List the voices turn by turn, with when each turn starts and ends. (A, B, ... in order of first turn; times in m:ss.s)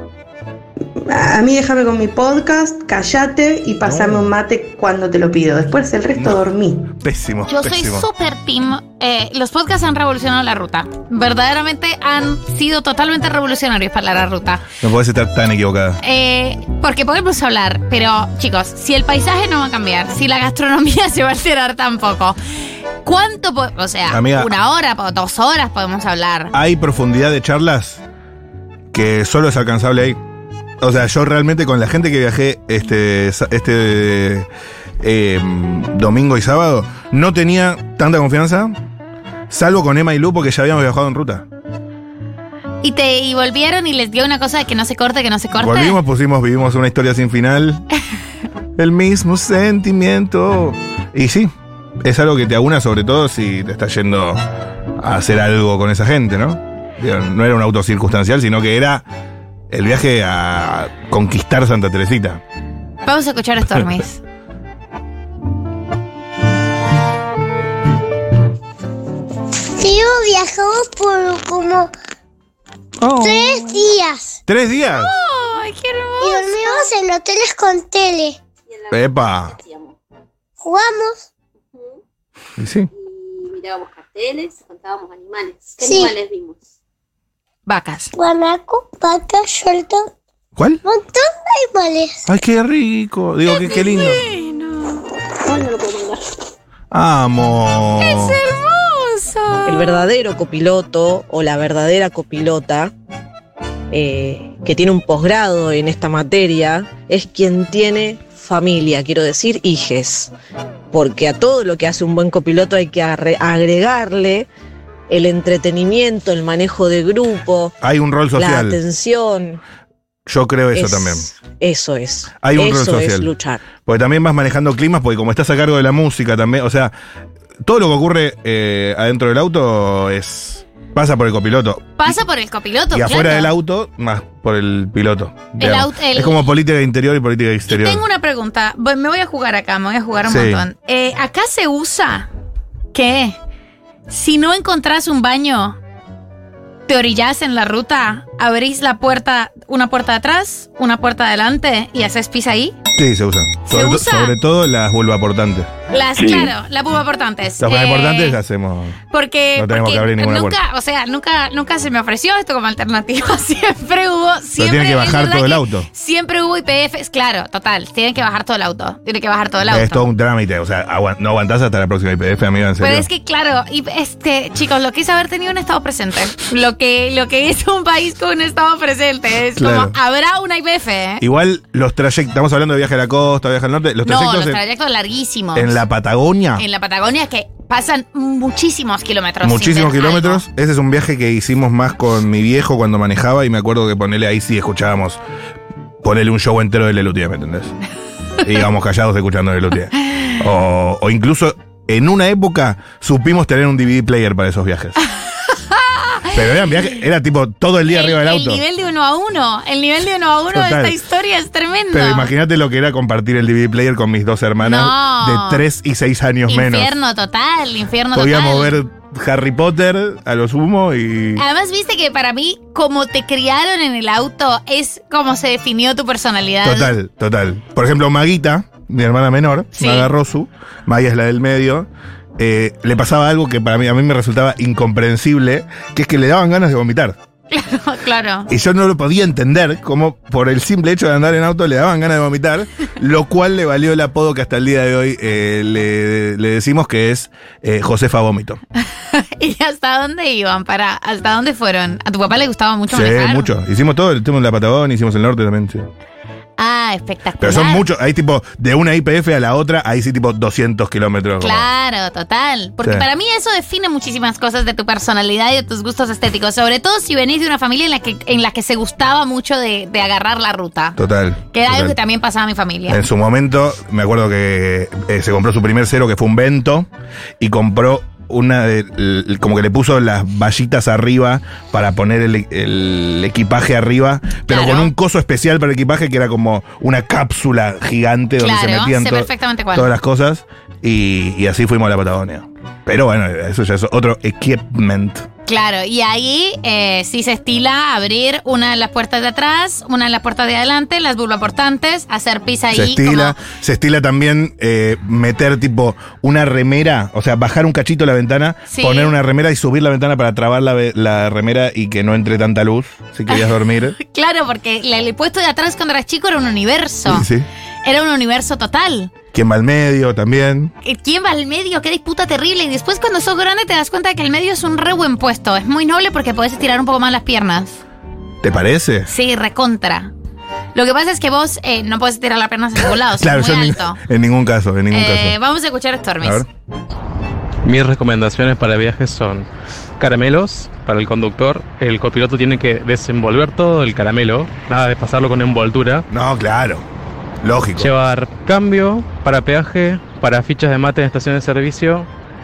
0:01.0-0:06.9 A
0:03.8-0:04.3 B
0:06.2-0:06.4 B
0:07.0-0:08.1 B
0:07.5-0:14.7 C
0:14.8-0:16.0 B
0:16.0-0:22.4 C
0:23.0-0:26.5 C
0:24.1-0:24.5 B
0:26.5-0:28.0 B
0:28.9-0:30.2 B
0:30.8-0:34.5 B
0:35.0-0:38.8 B
0:39.5-0:41.5 B
0:42.8-0:46.0 C
0:45.6-0:47.8 B
0:48.8-0:51.5 B
0:52.0-0:54.4 B
0:55.0-0:59.1 B
0:59.7-1:02.4 B
1:03.0-1:04.2 C
1:09.8-1:11.9 D
1:13.0-1:13.9 B
1:13.1-1:14.4 D
1:14.5-1:15.1 B
1:14.9-1:16.9 C
1:16.2-1:18.4 D
1:18.7-1:20.0 E
1:18.9-1:19.6 B
1:20.6-1:21.2 D
1:22.6-1:22.9 B
1:22.9-1:26.6 E
1:25.8-1:26.1 D
1:27.7-1:28.1 C
1:28.1-1:30.1 D
1:30.6-1:30.8 B
1:30.8-1:32.3 D
1:32.3-1:34.2 B
1:33.4-1:35.0 C
1:35.5-1:36.2 E
1:36.9-1:38.4 B
1:38.0-1:40.1 C
1:39.7-1:42.9 F
1:43.9-1:50.3 F
1:50.9-1:54.5 F
1:55.1-1:57.7 F
1:57.8-1:58.8 B
1:58.4-1:59.6 F
2:00.3-2:01.3 B
2:00.8-2:03.6 F
2:02.4-2:06.9 B
2:07.6-2:12.2 B
2:12.0-2:13.5 C
2:12.9-2:18.0 B
2:15.6-2:16.5 C
2:17.7-2:22.3 C
2:20.3-2:20.7 B
2:22.9-2:23.4 C
2:24.1-2:25.8 C
2:26.9-2:32.8 C
2:33.0-2:36.5 B
2:33.6-2:34.4 C
2:35.9-2:38.4 C
2:37.6-2:39.0 B
2:39.1-2:50.0 C
2:39.6-2:40.6 B
2:44.6-2:45.9 B
2:49.7-2:53.1 B
2:52.8-3:01.2 C
2:59.6-3:00.0 B
3:01.2-3:04.6 B
3:04.0-3:05.8 C
3:05.6-3:06.6 B
3:06.6-3:10.4 C
3:09.4-3:15.2 B
3:16.0-3:17.8 B
3:18.4-3:25.0 B
3:25.5-3:26.3 C
3:26.3-3:28.6 B
3:27.9-3:32.3 C
3:30.5-3:31.0 B
3:31.9-3:36.9 B
3:34.6-3:35.6 C
3:36.5-3:38.8 C
3:38.1-3:41.4 B
3:41.4-3:46.9 C
3:46.6-3:57.2 B
3:49.7-3:50.1 C
3:57.5-3:58.5 C
3:58.5-4:08.6 B
4:09.0-4:13.5 C
4:12.9-4:15.9 B
4:16.6-4:17.8 C
4:17.4-4:21.7 B
4:21.4-4:31.0 C
4:22.8-4:23.1 B
4:31.0-4:32.0 B
4:31.5-4:33.0 C
4:32.9-4:36.9 B
4:37.4-4:55.3 B
4:44.5-4:44.9 C
4:48.4-4:49.9 C
4:55.5-5:03.4 C
5:02.7-5:14.0 B
5:08.7-5:09.2 C
5:13.3-5:17.3 C
5:17.1-5:17.5 B
5:17.8-5:19.1 C
5:19.3-5:20.7 B
5:20.8-5:27.8 C
5:28.4-5:29.1 B
5:29.1-5:30.1 C
5:30.8-5:34.0 C
5:33.1-5:35.4 B
5:34.9-5:36.4 C
5:36.2-5:36.5 B
5:37.6-5:46.1 G
5:46.1-5:46.8 B
5:47.4-5:47.9 B
5:47.8-5:52.1 G